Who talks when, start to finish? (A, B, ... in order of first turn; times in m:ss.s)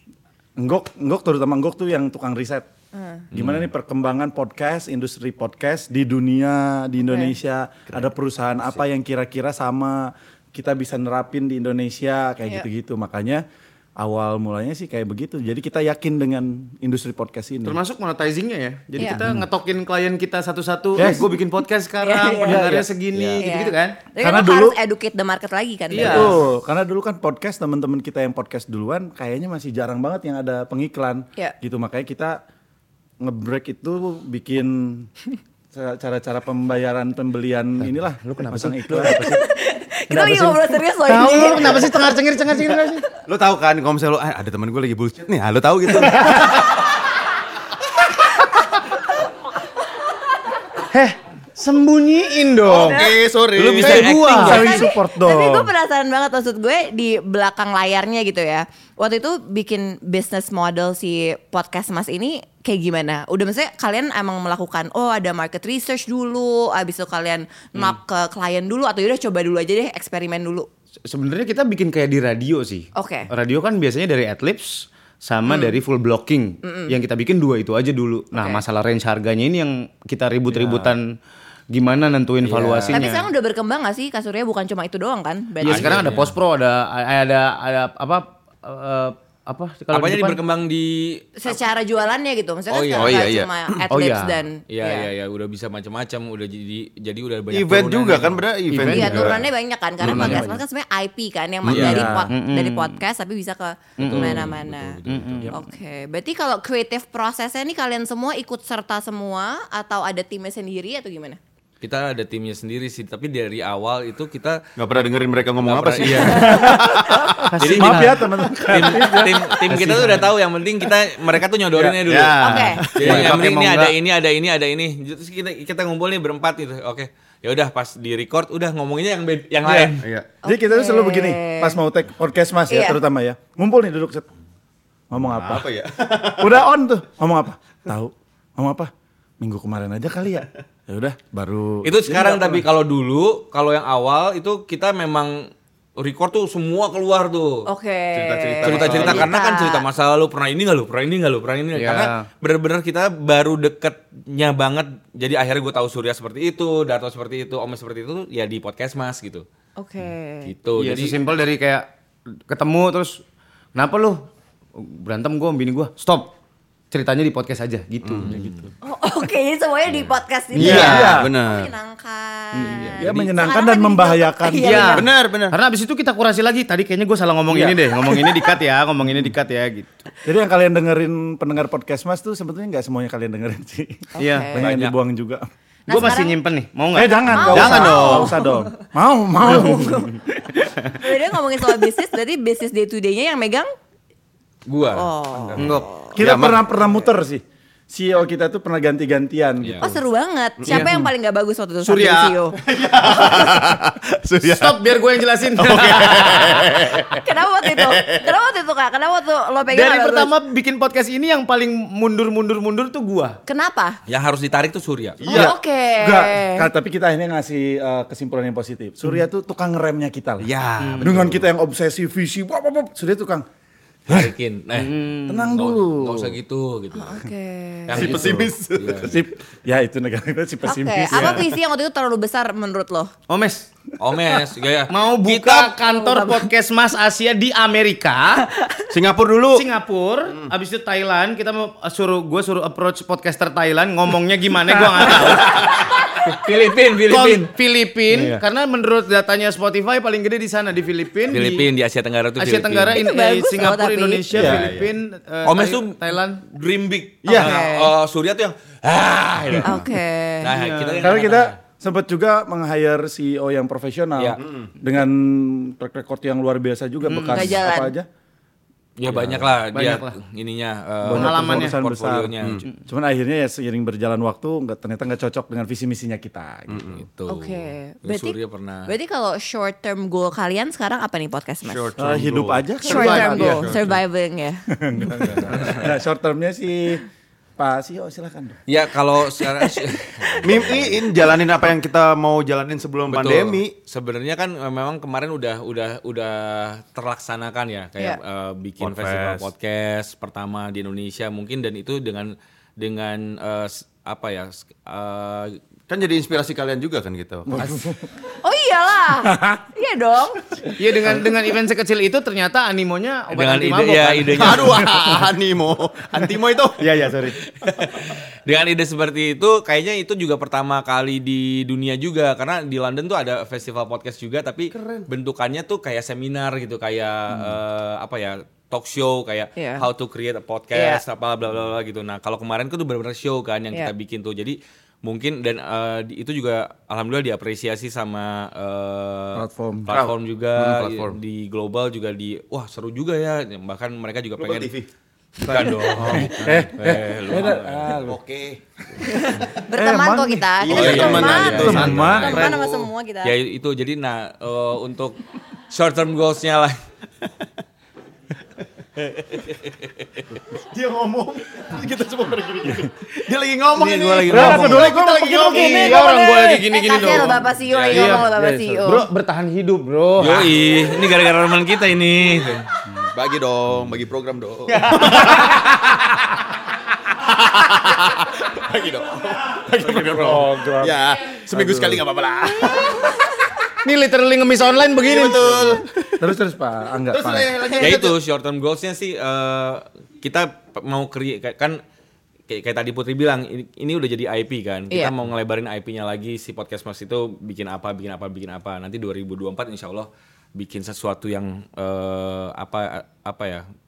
0:00.6-0:02.7 A
0:02.9-0:03.2 B
0:03.3-0:03.7 C
0:03.3-0:13.4 A
0:07.0-0:07.3 B
0:14.0-0:17.8 A
0:17.6-0:24.0 D
0:19.1-0:19.4 A
0:21.0-0:21.3 A
0:22.0-0:22.7 B
0:22.4-0:23.3 A
0:23.4-0:26.4 B
0:24.2-0:24.8 A
0:25.9-0:26.4 D
0:25.9-0:32.4 A
0:33.2-0:35.1 A
0:35.7-0:39.3 A
0:37.8-0:39.4 D
0:39.2-0:42.1 B
0:40.1-0:43.0 D
0:43.2-0:46.7 E
0:50.9-0:53.0 D
0:52.6-0:54.1 E
0:52.7-0:53.2 B
0:53.5-0:54.8 C
0:53.8-0:54.6 D
0:54.4-0:55.7 A
0:54.4-1:10.7 B
1:11.0-1:21.2 D
1:12.9-1:13.3 B
1:15.4-1:15.8 B
1:16.6-1:16.9 B
1:18.3-1:18.6 B
1:20.5-1:20.9 C
1:21.7-1:23.3 D
1:22.4-1:23.0 C
1:22.9-1:26.1 B
1:25.6-1:30.4 D
1:25.6-1:26.4 C
1:29.9-1:31.5 C
1:31.4-1:35.1 B
1:32.7-1:33.3 C
1:33.0-1:33.8 E
1:33.9-1:34.4 D
1:34.7-1:38.5 C
1:37.5-1:39.4 E
1:38.7-1:39.4 D
1:38.9-1:45.0 B
1:39.0-1:39.4 C
1:40.0-1:40.4 E
1:40.0-1:40.6 D
1:40.1-1:40.6 A
1:41.6-1:42.0 E
1:41.7-1:42.0 C
1:41.7-1:42.3 A
1:42.0-1:43.0 D
1:44.0-1:44.5 D
1:44.0-1:45.5 C
1:45.1-1:45.5 D
1:45.5-1:51.4 B
1:51.8-1:54.6 C
1:54.8-1:57.5 E
1:55.5-1:56.7 C
1:56.2-2:00.3 A
1:57.4-1:58.3 D
1:57.6-2:10.1 C
2:02.0-2:03.3 E
2:02.4-2:02.8 B
2:02.8-2:03.9 D
2:09.6-2:09.9 A
2:10.0-2:10.3 E
2:10.4-2:11.8 B
2:10.4-2:14.2 A
2:12.7-2:13.0 B
2:15.1-2:15.7 A
2:15.2-2:16.6 E
2:16.3-2:22.6 A
2:21.8-2:27.7 C
2:27.6-2:29.9 B
2:28.1-2:29.3 E
2:28.6-2:39.4 C
2:31.7-2:32.2 D
2:39.8-2:40.5 B
2:40.4-2:41.2 C
2:40.8-2:43.2 D
2:43.7-2:46.3 D
2:46.9-2:48.6 D
2:48.0-2:48.3 E
2:48.2-2:48.7 C
2:48.8-2:55.1 B
2:49.9-2:50.2 C
2:50.5-2:51.1 D
2:50.6-2:51.7 E
2:50.6-2:51.3 A
2:52.5-2:53.0 D
2:52.7-2:53.3 C
2:52.9-2:55.0 A
2:54.6-3:00.1 D
2:54.9-2:55.6 E
2:57.5-2:57.9 A
3:00.2-3:05.5 A
3:04.2-3:04.7 B
3:04.2-3:04.5 D
3:04.6-3:05.0 C
3:05.9-3:06.4 B
3:05.9-3:07.8 D
3:06.9-3:10.1 A
3:07.2-3:08.7 B
3:07.5-3:08.3 E
3:09.4-3:10.2 B
3:10.8-3:13.7 B
3:14.7-3:15.8 C
3:14.9-3:16.2 B
3:15.6-3:15.8 D
3:16.1-3:20.0 A
3:16.2-3:16.6 E
3:19.6-3:19.9 C
3:19.8-3:22.6 B
3:20.6-3:21.0 E
3:20.7-3:21.0 D
3:21.8-3:24.8 E
3:24.4-3:27.0 D
3:25.6-3:28.3 E
3:27.1-3:30.3 B
3:29.7-3:33.4 D
3:33.5-3:34.0 B
3:34.1-3:35.3 C
3:35.2-3:35.5 E
3:35.3-3:36.7 B
3:35.3-3:43.4 A
3:40.4-3:41.4 E
3:40.8-3:41.1 D
3:44.1-3:45.0 C
3:44.7-3:45.6 D
3:45.3-3:46.4 A
3:45.5-3:47.2 C
3:46.9-3:48.1 B
3:47.8-3:49.2 C
3:47.9-3:49.2 E
3:49.0-3:51.5 A
3:50.6-3:53.1 B
3:53.3-3:53.7 D
3:54.0-3:55.7 C
3:54.9-3:58.5 D
3:55.8-3:56.5 B
3:58.5-3:58.9 B
3:58.9-3:59.6 E
3:59.5-4:05.7 D
4:06.2-4:07.5 C
4:07.1-4:11.7 D
4:08.1-4:08.4 E
4:11.3-4:13.0 C
4:12.4-4:16.4 D
4:12.9-4:14.3 B
4:14.3-4:14.9 E
4:14.3-4:14.7 A
4:15.4-4:19.9 C
4:17.2-4:17.6 E
4:17.3-4:17.9 B
4:19.6-4:20.5 B
4:20.4-4:21.6 C
4:20.4-4:21.2 D
4:21.0-4:28.1 A
4:24.4-4:24.7 E
4:27.0-4:27.6 D
4:27.3-4:27.9 B
4:29.0-4:32.6 C
4:29.1-4:29.4 A
4:29.7-4:30.2 D
4:31.0-4:36.9 A
4:31.1-4:31.8 D
4:36.7-4:37.0 E
4:37.0-4:38.9 C
4:37.3-4:41.9 B
4:41.6-4:44.0 E
4:42.0-4:43.8 A
4:42.8-4:44.6 B
4:42.9-4:43.6 D
4:44.7-4:47.0 A
4:45.5-4:45.9 C
4:47.6-4:48.6 A
4:48.7-4:51.3 C
4:50.4-4:53.7 E
4:53.1-5:05.6 C
4:58.8-4:59.5 E
5:05.9-5:07.6 E
5:07.5-5:08.1 A
5:08.4-5:10.4 B
5:09.3-5:09.6 A
5:10.6-5:11.2 A
5:10.8-5:14.8 D
5:13.3-5:14.8 C
5:14.4-5:16.9 E
5:16.8-5:17.4 D
5:17.5-5:44.7 C
5:24.7-5:25.1 E
5:29.6-5:29.9 B
5:30.7-5:31.0 B
5:39.3-5:40.0 A
5:39.9-5:41.1 E
5:44.4-5:44.9 E
5:45.4-5:48.0 C
5:45.4-5:48.2 A
5:46.0-5:46.3 E
5:48.0-5:48.6 E
5:49.0-5:53.4 B
5:49.7-5:52.5 A
5:50.6-5:52.9 E
5:50.7-5:52.6 C
5:53.2-5:56.8 C
5:59.0-6:00.3 C
6:00.5-6:06.0 E
6:03.8-6:04.9 C
6:04.3-6:05.9 A
6:05.5-6:09.1 B
6:05.5-6:10.6 D
6:07.6-6:08.3 C
6:10.2-6:12.7 C
6:13.1-6:15.6 E
6:14.7-6:15.7 D
6:17.2-6:23.1 E
6:19.8-6:21.0 A
6:21.5-6:22.0 A
6:23.8-6:25.8 D
6:25.0-6:25.9 E
6:26.2-6:27.6 A
6:27.1-6:28.2 E
6:27.8-6:31.8 C
6:32.5-6:43.6 C